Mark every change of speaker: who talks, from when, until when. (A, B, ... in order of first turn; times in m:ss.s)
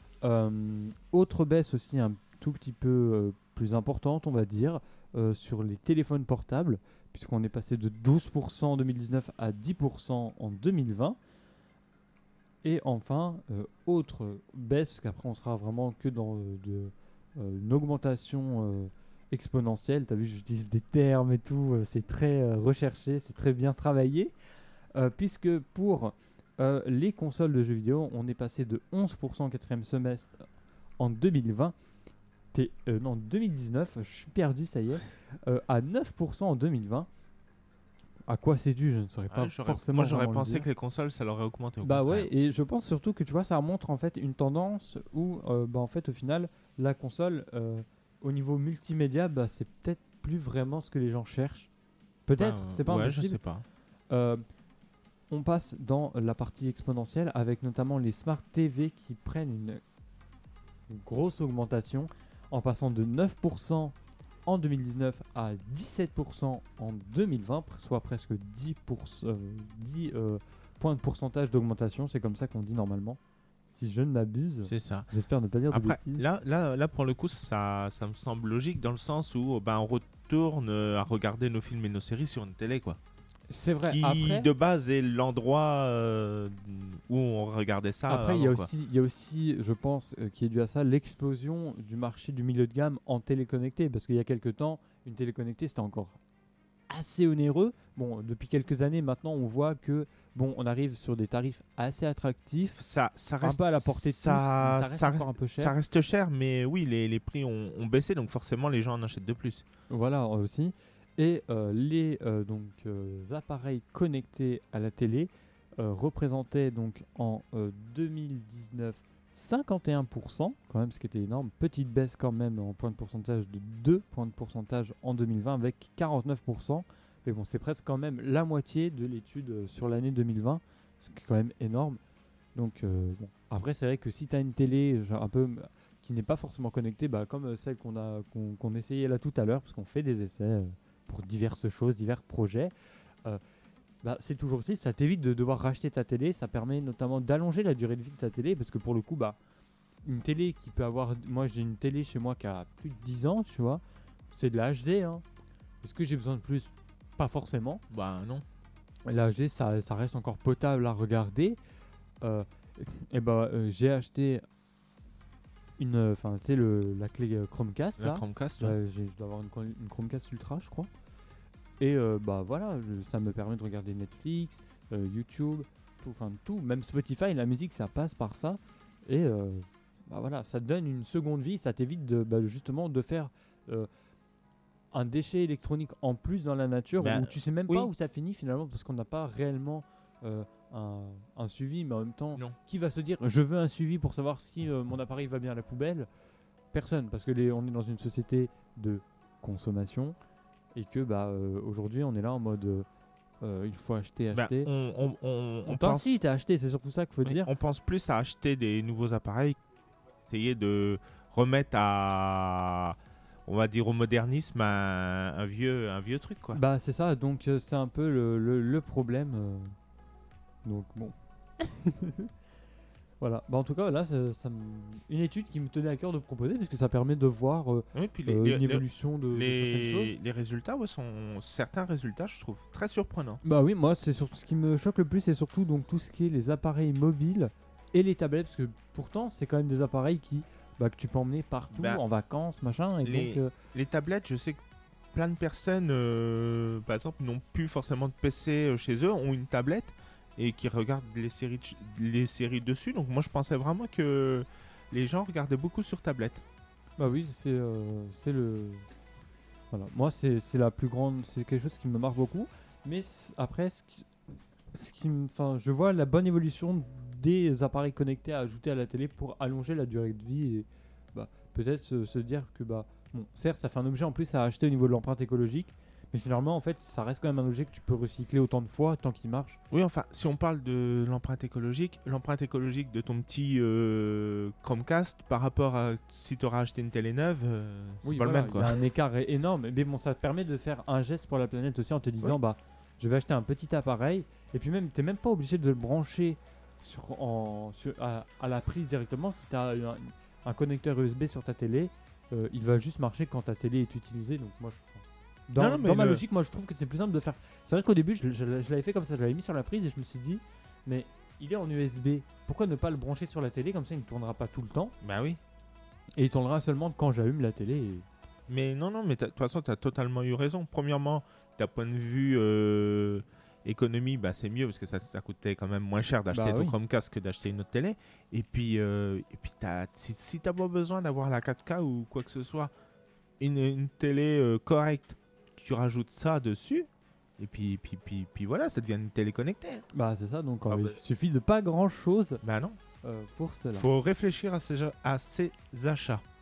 0:00.2-0:11.2 A
0:12.6-0:24.3 A
0:25.0-0:30.4 A
0:31.0-0:31.8 A
0:32.5-0:37.1 A
0:38.3-0:40.7 A
0:39.3-0:42.3 B
0:41.8-0:51.7 A
0:52.3-0:53.4 A
0:52.4-0:53.6 B
0:54.1-0:54.4 A
0:55.3-0:59.8 A
1:00.9-1:16.2 A
1:14.6-1:15.1 B
1:15.7-1:23.0 B
1:23.5-1:24.5 A
1:23.8-1:28.7 B
1:28.1-1:36.2 A
1:36.9-1:42.8 A
1:42.8-1:49.6 B
1:43.4-1:45.8 A
1:49.9-2:12.0 A
2:12.6-2:22.7 A
2:24.0-2:29.4 A
2:30.0-2:33.8 A
2:34.3-2:35.2 A
2:35.8-2:37.8 A
2:37.9-2:38.4 B
2:39.0-2:41.6 A
2:42.2-2:44.4 A
2:45.8-2:50.9 A
2:48.0-2:48.7 B
2:51.8-3:03.9 A
3:04.9-3:16.1 A
3:07.0-3:07.9 B
3:16.7-3:20.2 A
3:20.8-3:22.9 A
3:23.4-3:24.7 A
3:24.3-3:26.2 B
3:25.6-3:27.5 A
3:27.2-3:29.6 B
3:30.3-3:33.0 B
3:33.5-3:36.6 B
3:36.6-3:39.8 A
3:40.6-3:42.3 A
3:43.2-3:50.1 A
3:47.9-3:53.4 B
3:53.4-4:03.5 A
4:01.8-4:02.0 B
4:03.0-4:04.6 B
4:05.1-4:16.4 B
4:17.0-4:18.9 A
4:19.7-4:24.1 A
4:24.7-4:39.6 A
4:39.7-4:48.8 B
4:48.0-5:14.9 A
5:05.6-5:06.2 B
5:15.0-5:15.4 B
5:16.2-5:18.1 A
5:18.5-5:32.7 B
5:26.3-5:26.8 A
5:33.4-5:36.9 B
5:37.4-5:39.9 B
5:39.9-5:42.4 A
5:40.7-5:41.0 B
5:42.4-5:42.8 B
5:43.0-5:43.9 A
5:43.8-5:46.2 B